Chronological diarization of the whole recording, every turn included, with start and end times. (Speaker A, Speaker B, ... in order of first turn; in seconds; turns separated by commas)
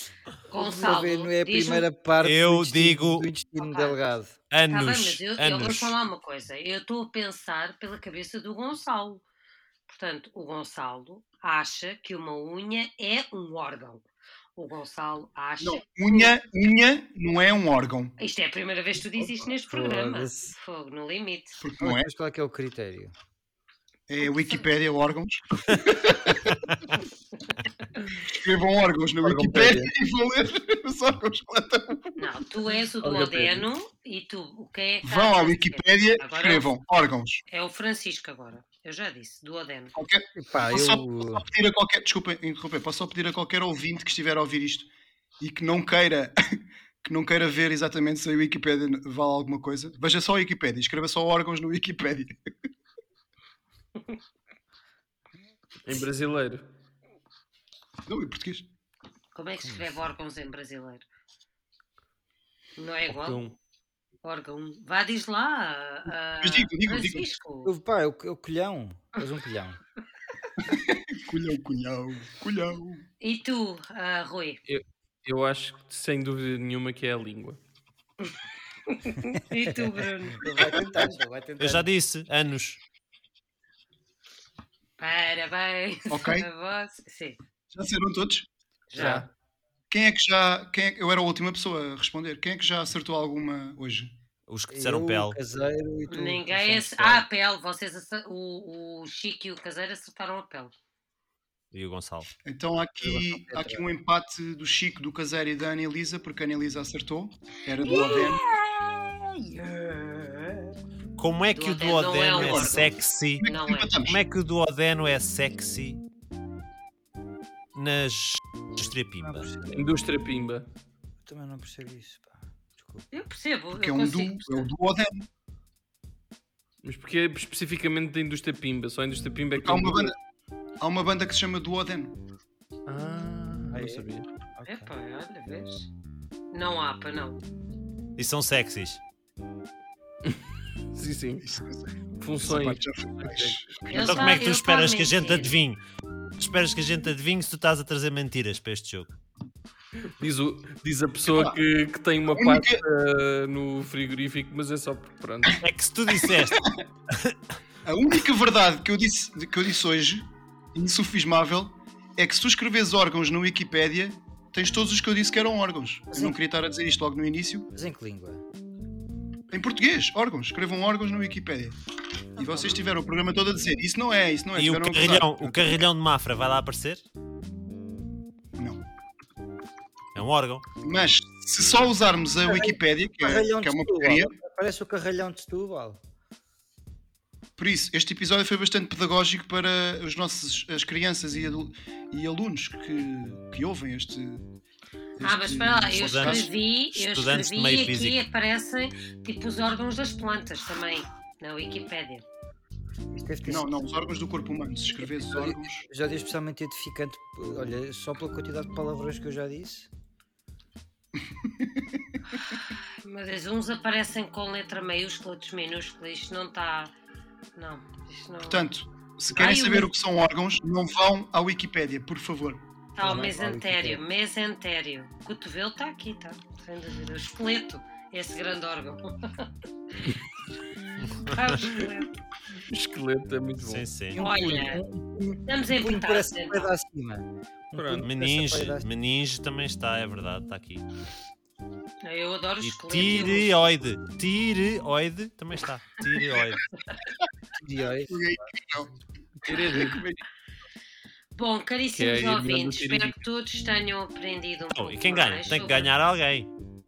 Speaker A: 0.5-1.9, Speaker B: 0.5-4.3, Speaker C: 2.2-3.3, Speaker A: 3.6-4.0, Speaker C: 4.5-6.0, Speaker A: 4.7-9.2, Speaker A: 9.9-14.0, Speaker A: 14.6-16.3, Speaker D: 15.6-18.2, Speaker A: 18.2-21.6, Speaker B: 19.7-20.5, Speaker D: 21.6-22.1, Speaker B: 21.8-23.1, Speaker D: 24.1-26.6, Speaker D: 28.1-32.2, Speaker E: 29.2-29.9, Speaker A: 32.1-36.7, Speaker E: 33.0-33.6, Speaker D: 35.0-37.4, Speaker A: 37.5-40.0, Speaker D: 39.9-52.3, Speaker B: 40.4-41.4, Speaker E: 55.9-56.6, Speaker D: 58.0-58.7, Speaker A: 59.3-61.0, Speaker B: 59.6-59.9, Speaker A: 62.8-63.4, Speaker E: 63.1-63.5, Speaker A: 64.2-67.7, Speaker D: 66.4-67.2, Speaker B: 67.6-69.8, Speaker D: 70.6-73.0, Speaker A: 73.2-74.6, Speaker E: 74.7-77.6, Speaker A: 78.9-80.5, Speaker B: 79.7-81.9, Speaker C: 81.6-82.8, Speaker A: 85.0-87.4, Speaker D: 86.1-86.5, Speaker D: 87.7-88.5, Speaker A: 88.9-89.2, Speaker E: 88.9-89.3, Speaker D: 89.9-94.1, Speaker C: 94.5-95.4, Speaker B: 94.7-97.2, Speaker A: 96.1-100.7, Speaker C: 101.7-102.3, Speaker D: 102.4-108.4, Speaker B: 103.0-103.9, Speaker A: 107.8-110.7, Speaker C: 111.2-113.5, Speaker A: 111.5-114.0, Speaker D: 113.4-114.2, Speaker C: 114.0-116.0, Speaker C: 117.7-119.5, Speaker B: 119.2-119.8, Speaker E: 119.7-120.7, Speaker B: 121.2-123.1, Speaker A: 123.1-124.7, Speaker D: 123.7-125.3, Speaker E: 126.8-130.1, Speaker D: 129.5-130.2, Speaker D: 130.8-132.2, Speaker E: 132.8-134.2, Speaker B: 133.7-134.9, Speaker A: 134.7-135.9, Speaker A: 136.5-137.4, Speaker C: 138.2-139.0, Speaker E: 140.9-141.4, Speaker D: 141.4-144.3, Speaker E: 142.2-143.8, Speaker A: 143.9-145.5, Speaker C: 143.9-145.8, Speaker C: 146.4-149.1, Speaker E: 150.2-155.6, Speaker D: 151.3-151.6, Speaker D: 152.3-152.8, Speaker C: 155.6-157.3, Speaker D: 156.3-156.8, Speaker D: 157.8-167.7, Speaker B: 167.7-168.4, Speaker D: 169.5-171.8, Speaker D: 172.4-175.8, Speaker B: 172.4-172.8, Speaker C: 174.5-177.0, Speaker D: 178.6-178.8, Speaker C: 180.1-180.6, Speaker D: 180.8-184.3, Speaker B: 182.4-186.0, Speaker D: 187.6-194.5, Speaker D: 195.2-196.5, Speaker A: 195.2-202.2, Speaker C: 195.9-198.2, Speaker B: 203.1-203.7, Speaker D: 203.4-205.8, Speaker B: 205.0-209.9, Speaker D: 211.2-212.0, Speaker A: 212.5-216.9, Speaker A: 217.6-218.6, Speaker D: 218.4-222.7, Speaker A: 219.3-219.9, Speaker A: 222.9-229.5, Speaker E: 223.0-223.7, Speaker B: 223.0-224.0, Speaker C: 231.0-231.5, Speaker A: 231.2-232.1, Speaker E: 232.6-233.9, Speaker C: 233.6-234.2, Speaker B: 234.1-238.9, Speaker A: 234.2-234.8, Speaker A: 235.4-236.7, Speaker E: 237.7-238.1, Speaker C: 238.0-240.8, Speaker A: 242.0-243.7, Speaker C: 242.6-246.6, Speaker D: 247.0-247.3, Speaker B: 247.6-248.4, Speaker D: 248.1-248.9, Speaker E: 249.4-250.1, Speaker D: 249.4-250.2, Speaker A: 251.3-255.9, Speaker E: 251.9-253.2, Speaker C: 254.7-256.5